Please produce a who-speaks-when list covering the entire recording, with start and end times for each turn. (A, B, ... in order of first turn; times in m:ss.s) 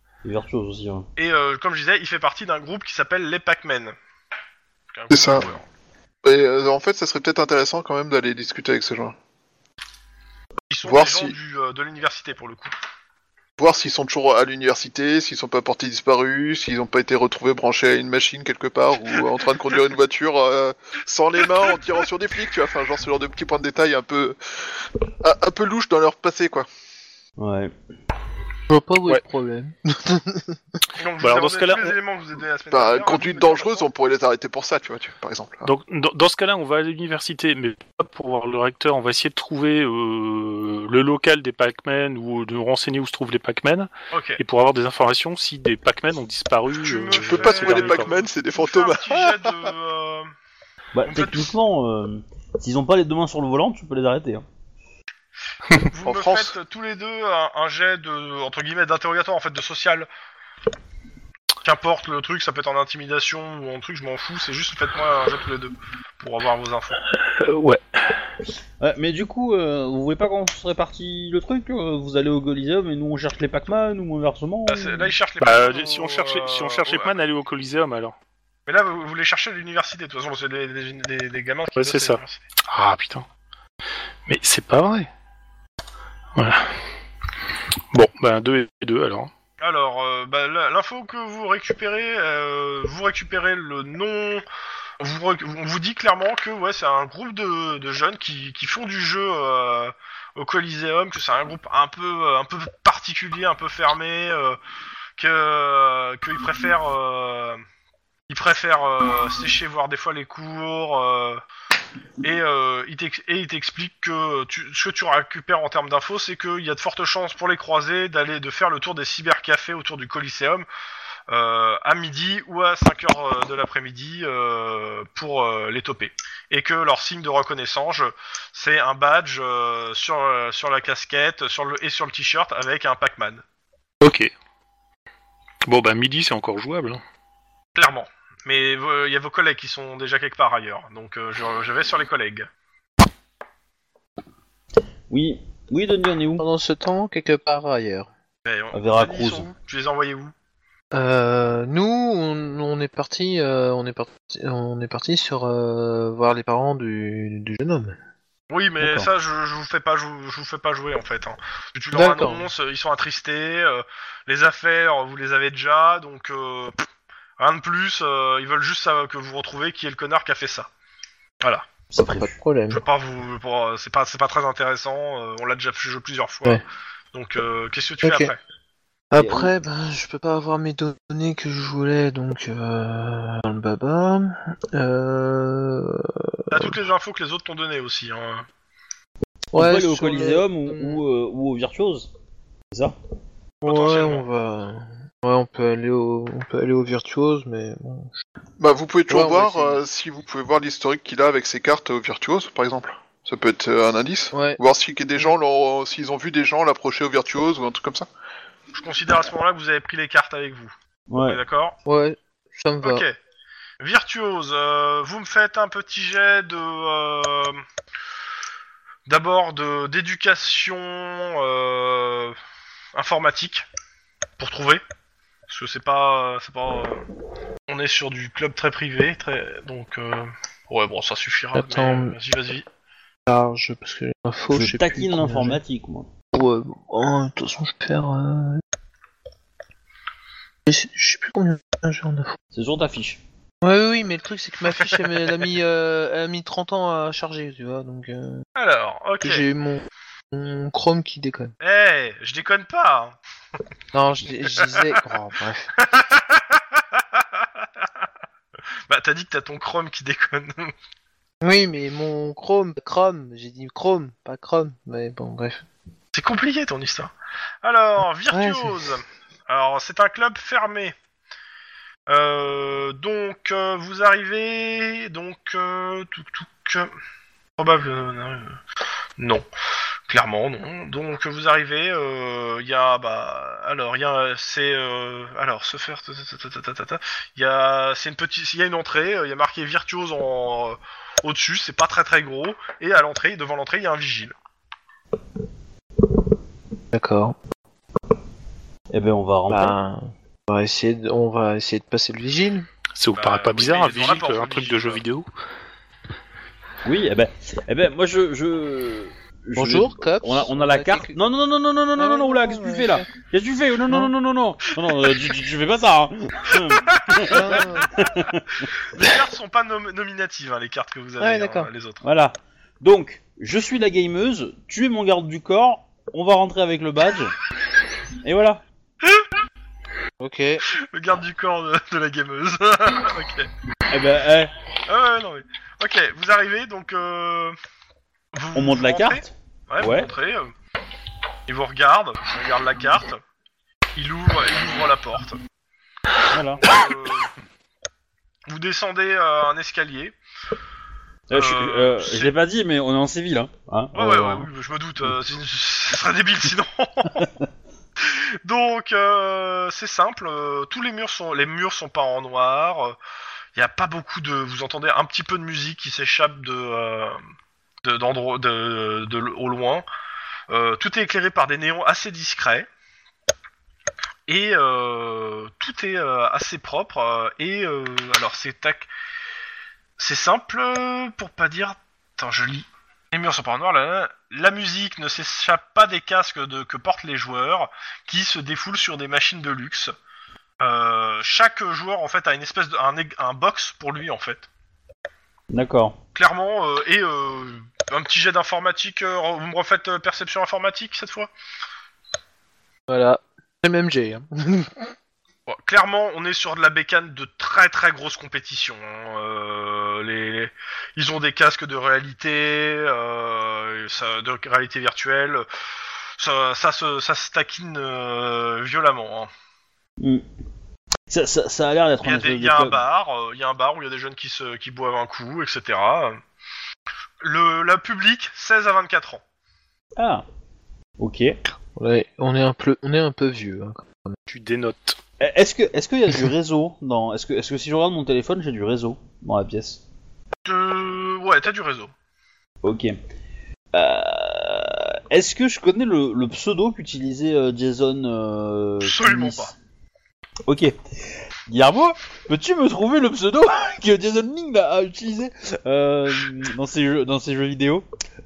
0:00.2-0:01.0 A
0:01.2-0:03.9 B
0:04.9-0:05.6 B
0:05.1-0:05.5 C
0:06.2-0:09.1 C
0:10.7-0:12.7 B
0:10.8-0:11.4 C
0:13.6-0:24.4 C
0:25.2-0:26.7 C
0:27.4-0:27.7 A
0:28.7-0:30.6 D
0:31.0-0:33.8 B
0:31.2-0:31.9 E
0:32.7-0:35.7 C
0:35.6-0:48.1 E
0:44.1-0:44.4 B
0:46.7-0:50.3 B
0:47.1-0:49.7 C
0:50.9-0:54.4 A
0:51.1-0:51.5 B
0:55.8-1:00.1 B
0:56.0-0:56.5 C
1:01.6-1:07.0 B
1:07.3-1:08.0 E
1:08.8-1:15.1 A
1:14.7-1:17.2 B
1:15.4-1:18.1 E
1:18.7-1:22.4 B
1:21.8-1:23.2 E
1:24.2-1:25.1 E
1:26.3-1:26.6 E
1:27.9-1:29.3 E
1:29.6-1:34.4 B
1:35.0-1:44.6 B
1:45.2-1:47.6 B
1:48.3-1:51.4 B
1:52.2-2:00.7 B
2:01.3-2:13.4 B
2:14.0-2:14.3 E
2:15.6-2:17.0 E
2:17.7-2:22.5 B
2:25.1-2:26.4 A
2:26.4-2:28.1 D
2:28.4-2:30.3 B
2:28.7-2:29.5 A
2:30.9-2:38.0 D
2:38.5-2:46.9 B
2:38.8-2:39.1 A
2:41.9-2:42.5 D
2:47.4-2:50.7 B
2:51.9-2:52.3 A
2:52.1-2:52.8 D
2:52.7-2:56.6 B
2:57.1-2:58.4 B
2:58.0-2:58.3 D
2:59.1-3:06.8 D
2:59.2-2:59.5 A
3:06.5-3:08.4 B
3:09.5-3:12.1 A
3:09.5-3:11.0 D
3:13.6-3:14.2 B
3:13.6-3:18.1 D
3:18.6-3:28.1 C
3:19.1-3:19.8 D
3:24.3-3:24.6 D
3:28.7-3:30.7 B
3:31.1-3:31.4 A
3:31.2-3:31.8 B
3:31.8-3:33.0 D
3:32.8-3:33.2 B
3:33.8-3:37.6 B
3:39.1-3:42.4 B
3:42.9-3:43.6 B
3:44.4-3:44.8 B
3:45.5-3:47.0 B
3:47.7-3:52.6 B
3:51.5-3:52.2 D
3:53.3-3:55.6 D
3:54.5-3:56.1 A
3:56.3-3:58.6 D
4:00.7-4:02.3 D
4:02.5-4:03.2 A
4:03.6-4:08.4 D
4:04.8-4:05.1 B
4:08.6-4:09.5 B
4:09.2-4:11.5 D
4:11.6-4:13.2 B
4:13.9-4:15.7 D
4:14.5-4:15.0 B
4:15.8-4:17.4 B
4:18.9-4:20.7 B
4:21.4-4:25.6 D
4:26.1-4:27.1 B
4:27.6-4:30.9 B
4:28.3-4:28.8 D
4:32.1-4:36.9 B
4:37.6-4:38.6 B
4:39.2-4:39.5 B
4:40.1-4:54.3 B
4:56.9-4:57.4 D
4:58.9-4:59.8 A
4:59.5-5:02.7 D
5:02.9-5:05.3 E
5:03.1-5:05.0 B
5:06.8-5:18.7 A
5:09.6-5:11.2 D
5:12.0-5:13.0 D
5:16.8-5:17.5 B
5:17.2-5:17.9 D
5:18.8-5:22.0 B
5:21.2-5:21.7 D
5:22.0-5:27.3 A
5:28.2-5:28.6 A
5:30.2-5:30.6 D
5:30.7-5:33.5 B
5:33.9-5:34.5 A
5:34.9-5:37.6 B
5:38.3-5:40.5 B
5:38.5-5:40.1 A
5:41.5-5:43.2 B
5:44.0-5:45.4 B
5:46.3-5:46.6 A
5:46.6-5:47.3 B
5:48.5-5:50.2 B
5:51.3-5:54.5 A
5:51.3-5:52.3 B
5:53.9-5:57.3 B
5:58.0-6:03.0 B
6:03.5-6:07.2 B
6:07.8-6:09.8 B
6:10.5-6:12.7 B
6:14.3-6:18.9 B
6:20.0-6:29.9 B
6:30.6-6:34.5 B
6:35.5-6:36.0 A
6:36.1-6:41.3 B
6:42.9-6:44.7 D
6:45.5-6:55.4 B
6:56.2-6:59.3 B
7:01.1-7:02.8 A
7:02.0-7:06.2 B
7:07.2-7:09.2 B
7:10.0-7:10.2 A
7:11.0-7:11.4 A
7:11.8-7:14.2 D
7:14.3-7:15.0 E
7:15.2-7:19.8 A
7:20.4-7:21.9 B
7:22.6-7:22.9 A
7:23.7-7:29.5 A
7:28.8-7:29.5 B
7:30.4-7:30.7 A
7:31.5-7:37.8 A